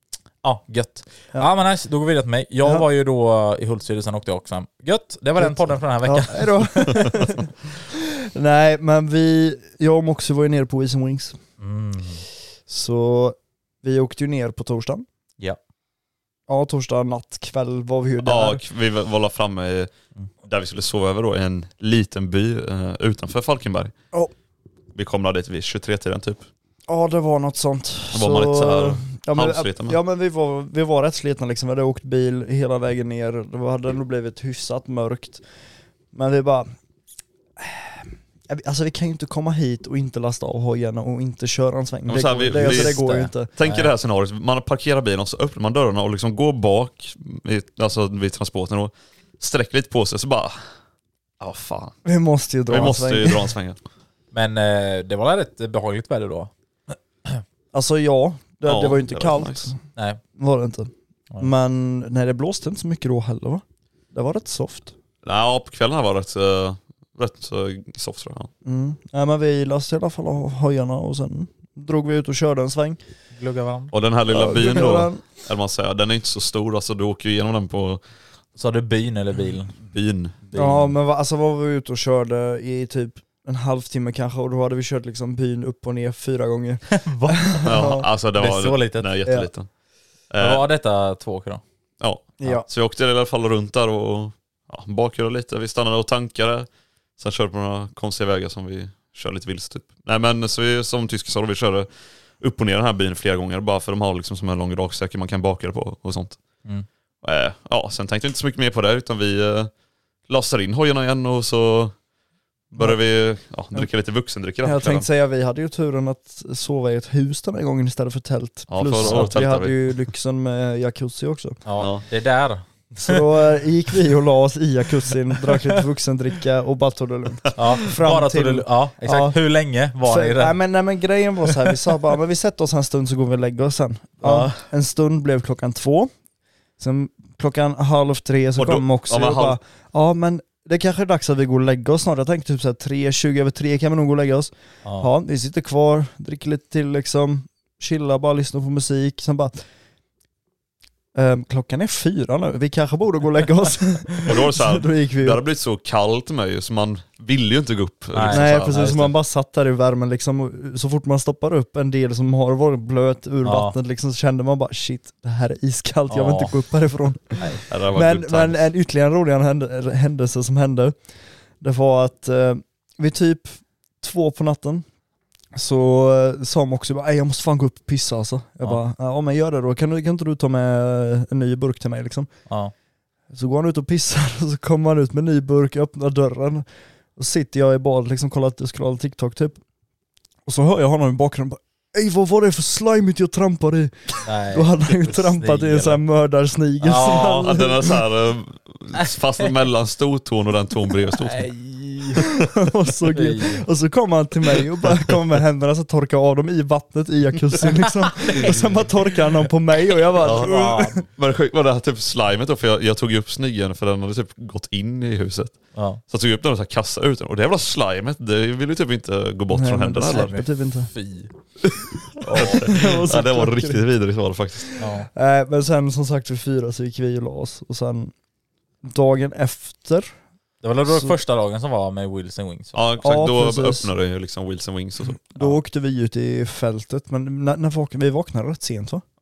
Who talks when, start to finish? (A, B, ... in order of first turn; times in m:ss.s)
0:00.4-0:07.0 A
0:05.4-0:11.4 B
0:11.6-0:12.2 A
0:12.7-0:15.0 B
0:16.5-0:18.6 B
0:18.2-0:19.9 C
0:20.4-0:23.9 C
0:24.9-0:26.5 C
0:26.9-0:35.4 B
0:28.1-0:30.0 C
0:36.1-0:36.7 B
0:37.6-0:43.5 B
0:42.1-0:43.0 C
0:42.5-0:43.9 A
0:43.6-0:50.7 C
0:51.4-0:52.0 C
0:52.0-0:53.5 B
0:52.7-0:53.8 C
0:54.3-0:56.5 A
0:57.7-0:59.8 B
0:58.6-0:59.7 C
1:00.4-1:04.9 B
1:05.2-1:08.5 C
1:08.6-1:13.0 B
1:13.3-1:13.9 A
1:13.9-1:18.0 C
1:14.3-1:15.2 B
1:18.6-1:19.8 A
1:19.8-1:20.4 C
1:20.5-1:20.9 A
1:20.5-1:28.0 B
1:26.9-1:27.6 A
1:27.6-1:29.7 C
1:28.4-1:29.1 A
1:30.3-1:30.6 C
1:30.4-1:31.6 A
1:32.0-1:41.9 C
1:32.4-1:32.6 B
1:42.4-1:46.4 C
1:47.2-1:49.7 C
1:50.3-1:51.9 C
1:52.7-1:55.1 C
1:54.6-2:01.6 B
1:58.7-1:59.8 C
1:59.0-1:59.4 A
2:01.6-2:03.2 A
2:01.8-2:02.0 C
2:03.0-2:09.4 B
2:07.5-2:10.6 A
2:10.0-2:16.1 B
2:14.2-2:14.6 A
2:16.8-2:29.6 B
2:18.6-2:19.6 C
2:31.1-2:35.4 B
2:34.2-2:39.1 C
2:38.1-2:39.0 A
2:38.3-2:50.9 B
2:43.4-2:43.7 A
2:46.1-2:46.5 A
2:47.4-2:47.6 A
2:47.7-2:48.6 C
2:51.6-2:54.8 B
2:55.5-3:02.3 B
3:03.3-3:06.6 B
3:07.2-3:09.6 B
3:10.5-3:18.0 B
3:14.2-3:16.0 A
3:16.8-3:17.5 A
3:17.2-3:21.5 C
3:21.2-3:22.2 A
3:22.2-3:31.0 B
3:23.1-3:23.6 A
3:28.2-3:28.9 A
3:30.2-3:40.4 C
3:30.2-3:31.0 A
3:35.7-3:36.0 A
3:39.5-3:40.9 B
3:40.1-3:41.3 A
3:42.2-3:42.7 A
3:42.3-3:44.7 C
3:42.4-3:43.8 B
3:44.8-3:45.1 A
3:44.8-3:48.1 B
3:48.8-3:50.1 B
3:50.6-3:52.8 A
3:50.9-3:51.2 B
3:52.7-3:55.2 C
3:53.0-3:53.9 B
3:55.3-3:59.0 B